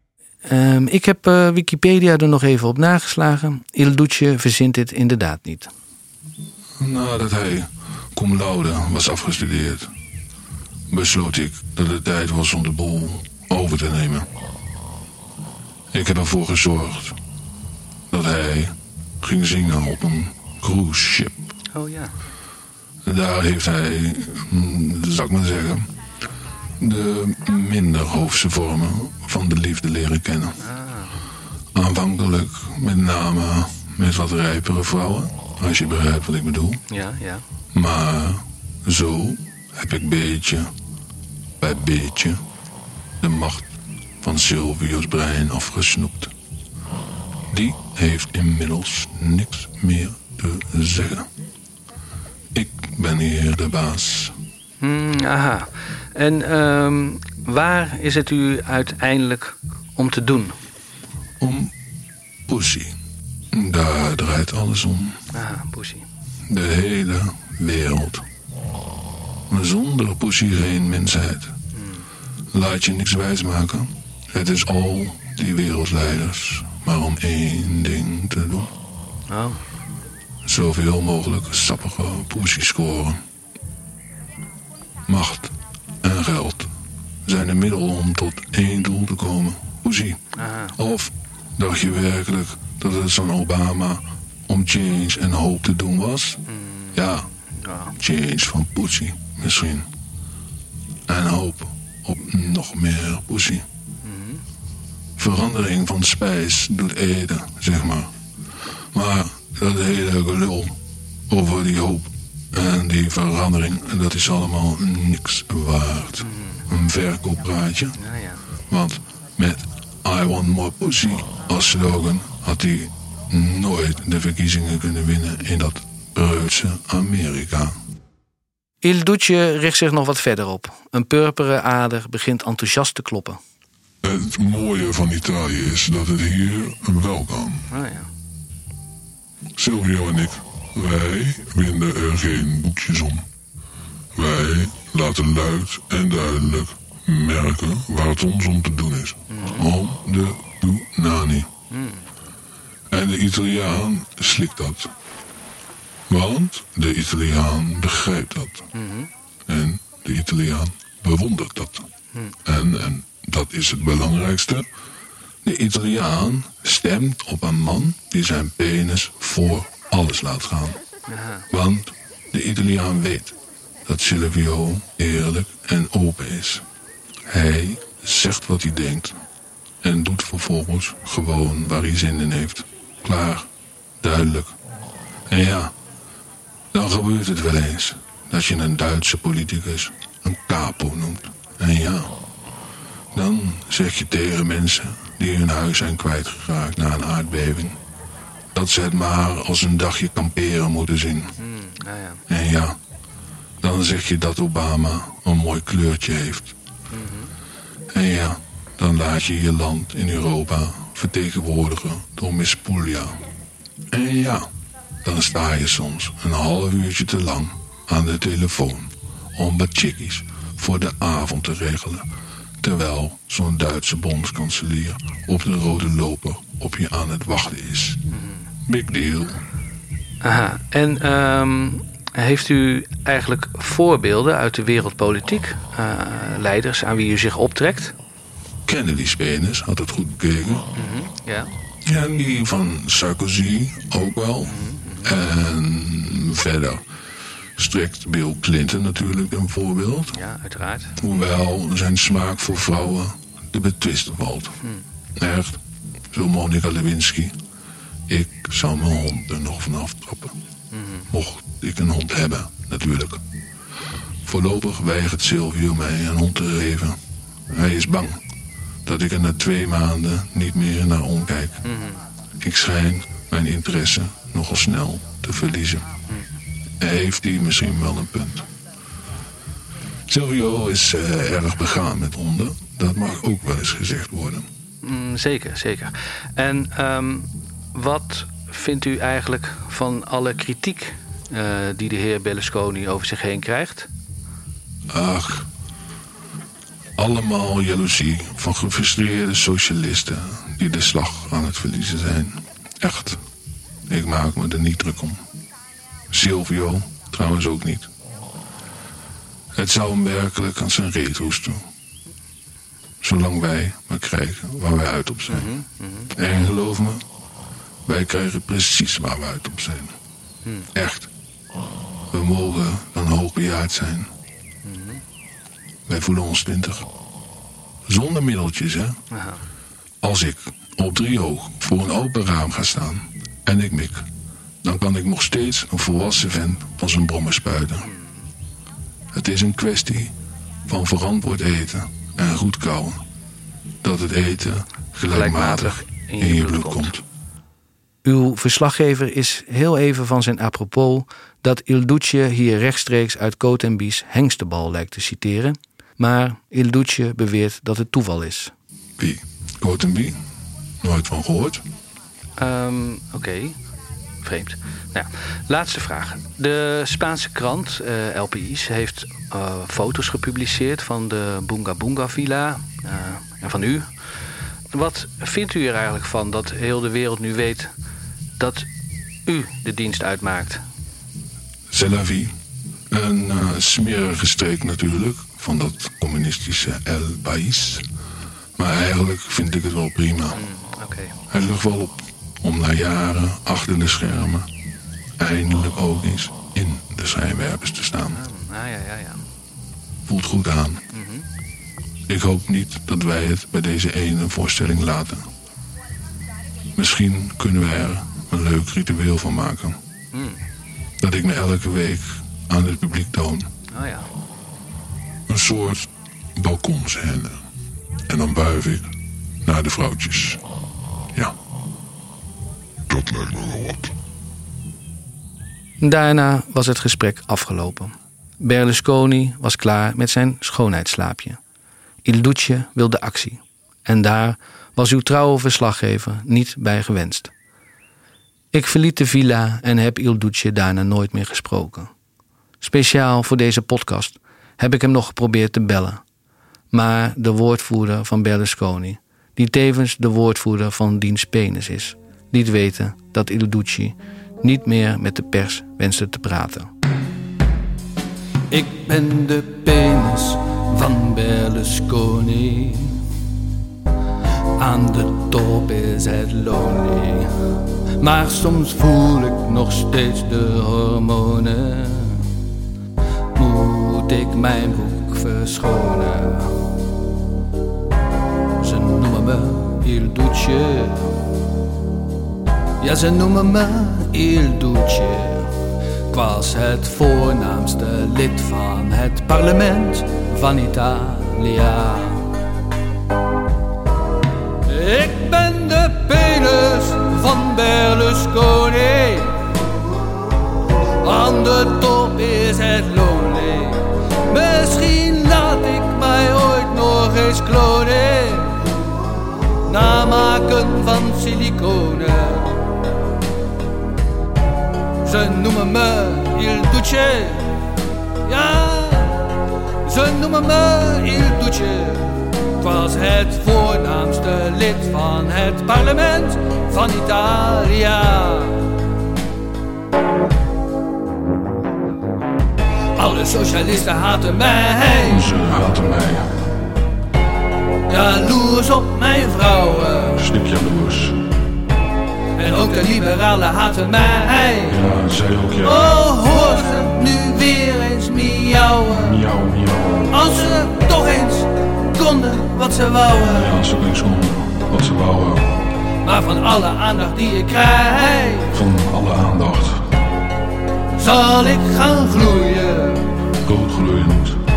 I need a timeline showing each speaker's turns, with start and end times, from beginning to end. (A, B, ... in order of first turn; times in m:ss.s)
0:00.5-0:05.7 A
0:06.8-0:09.9 B
0:10.9-0:14.3 B
0:15.9-0:17.2 B
0:18.1-0:21.5 B
0:21.7-0:22.2 A
0:23.1-0:25.9 B
0:26.8-0:30.6 B
0:30.6-0:31.1 A
0:31.7-0:36.8 B
0:36.9-0:37.4 A
0:37.7-0:40.7 B
0:41.6-0:42.4 B
0:43.2-0:43.7 B
0:44.2-0:46.3 B
0:47.5-0:51.3 B
0:52.6-0:54.4 B
0:54.8-1:00.6 A
1:01.4-1:01.7 B
1:02.5-1:03.0 B
1:03.5-1:05.2 B
1:05.3-1:06.1 A
1:06.5-1:08.2 B
1:09.5-1:11.6 B
1:11.8-1:12.1 A
1:12.5-1:18.7 B
1:19.3-1:19.6 A
1:20.4-1:23.2 B
1:25.1-1:26.7 B
1:27.3-1:30.2 B
1:30.4-1:30.8 A
1:30.8-1:36.4 B
1:36.5-1:38.0 A
1:36.9-1:37.3 B
1:38.0-1:39.9 B
1:41.1-1:43.7 B
1:44.0-1:44.4 A
1:45.2-1:48.1 B
1:48.9-1:50.8 B
1:51.3-1:58.0 B
1:56.2-1:56.6 A
1:58.0-1:58.4 A
1:58.7-2:07.8 B
2:08.8-2:13.4 A
2:14.0-2:17.7 B
2:17.7-2:18.1 A
2:19.6-2:23.3 B
2:24.2-2:31.5 B
2:29.3-2:29.7 A
2:31.7-2:32.0 A
2:32.9-2:34.9 B
2:36.1-2:38.7 B
2:38.7-2:39.1 A
2:39.5-2:41.9 B
2:42.4-2:44.7 B
2:45.4-2:50.8 B
2:51.1-2:51.5 A
2:51.5-2:56.6 B
2:57.3-2:59.2 B
2:59.8-3:03.5 B
3:04.0-3:04.6 B
3:05.3-3:05.7 B
3:06.7-3:12.2 B
3:13.1-3:17.8 B
3:18.5-3:21.4 B
3:21.4-3:22.2 A
3:22.3-3:22.8 B
3:23.6-3:26.6 B
3:26.9-3:27.3 A
3:27.9-3:33.2 B
3:33.9-3:34.5 B
3:35.0-3:42.1 B
3:42.6-3:48.0 B
3:48.1-3:48.4 A
3:48.7-3:49.4 B
3:50.2-3:58.0 A
3:58.7-4:00.6 B
4:00.7-4:01.5 A
4:01.9-4:06.8 B
4:04.5-4:05.2 A
4:07.6-4:10.2 B
4:10.1-4:11.0 A
4:11.0-4:14.6 B
4:15.2-4:17.4 B
4:18.1-4:20.4 B
4:20.7-4:21.1 A
4:21.1-4:23.2 B
4:24.2-4:27.0 B
4:27.5-4:28.2 B
4:28.8-4:31.6 B
4:31.6-4:32.0 A
4:32.4-4:35.9 B
4:36.8-4:38.5 B
4:40.1-4:44.5 B
4:44.8-4:53.9 A
4:54.9-4:55.5 B
4:57.0-5:03.2 B
5:03.9-5:05.2 B
5:06.1-5:07.9 B
5:09.6-5:11.6 B
5:13.0-5:15.5 B
5:15.3-5:16.2 A
5:16.2-5:17.0 B
5:17.9-5:20.0 B
5:20.7-5:21.1 B
5:22.1-5:24.1 B
5:24.6-5:25.0 A
5:25.9-5:26.9 B
5:27.9-5:29.0 B
5:29.1-5:29.4 A
5:30.0-5:34.1 B
5:34.6-5:37.9 B
5:37.8-5:38.3 A
5:39.1-5:40.1 B
5:40.7-5:43.0 B
5:43.8-5:47.0 B
5:45.0-5:46.9 A
5:48.0-5:58.5 A
5:59.0-6:00.2 B
6:00.8-6:01.6 B
6:02.4-6:03.6 A
6:04.2-6:13.9 A
6:14.7-6:17.7 A
6:18.4-6:18.7 A
6:19.3-6:20.6 A
6:21.7-6:22.4 B
6:22.9-6:27.8 B
6:28.6-6:30.4 B
6:30.3-6:31.2 A
6:31.3-6:34.5 B
6:35.2-6:38.2 B
6:38.1-6:39.2 A
6:40.1-6:40.8 B
6:40.9-6:41.3 A
6:42.1-6:45.3 B
6:46.8-6:49.8 B
6:50.1-6:50.4 A
6:51.0-6:53.5 B
6:53.7-6:54.1 A
6:55.3-6:57.5 B
6:58.1-6:58.9 B
6:59.4-7:00.4 B
7:02.9-7:03.9 B
7:05.8-7:11.4 A
7:12.0-7:17.3 A
7:18.5-7:21.9 A
7:22.6-7:26.0 A
7:26.7-7:36.7 A
7:38.5-7:43.0 A
7:44.6-7:47.3 A
7:48.0-7:52.3 A
7:53.4-7:56.7 A
7:58.6-8:01.2 A
8:02.8-8:05.5 A
8:06.1-8:12.3 A
8:14.7-8:19.6 A
8:21.0-8:28.7 A
8:29.6-8:32.8 A
8:35.0-8:37.6 A
8:38.2-8:39.3 A
8:39.8-8:48.7 A
8:53.0-8:55.3 A
8:55.1-8:56.3 B
8:57.9-9:00.3 A
9:00.2-9:01.2 B
9:02.4-9:04.8 A
9:04.7-9:05.8 B
9:05.6-9:09.3 A
9:09.0-9:10.1 B
9:10.1-9:13.5 A
9:13.4-9:15.5 B
9:16.0-9:18.6 A
9:18.5-9:19.8 B
9:20.9-9:23.1 A
9:23.4-9:24.4 B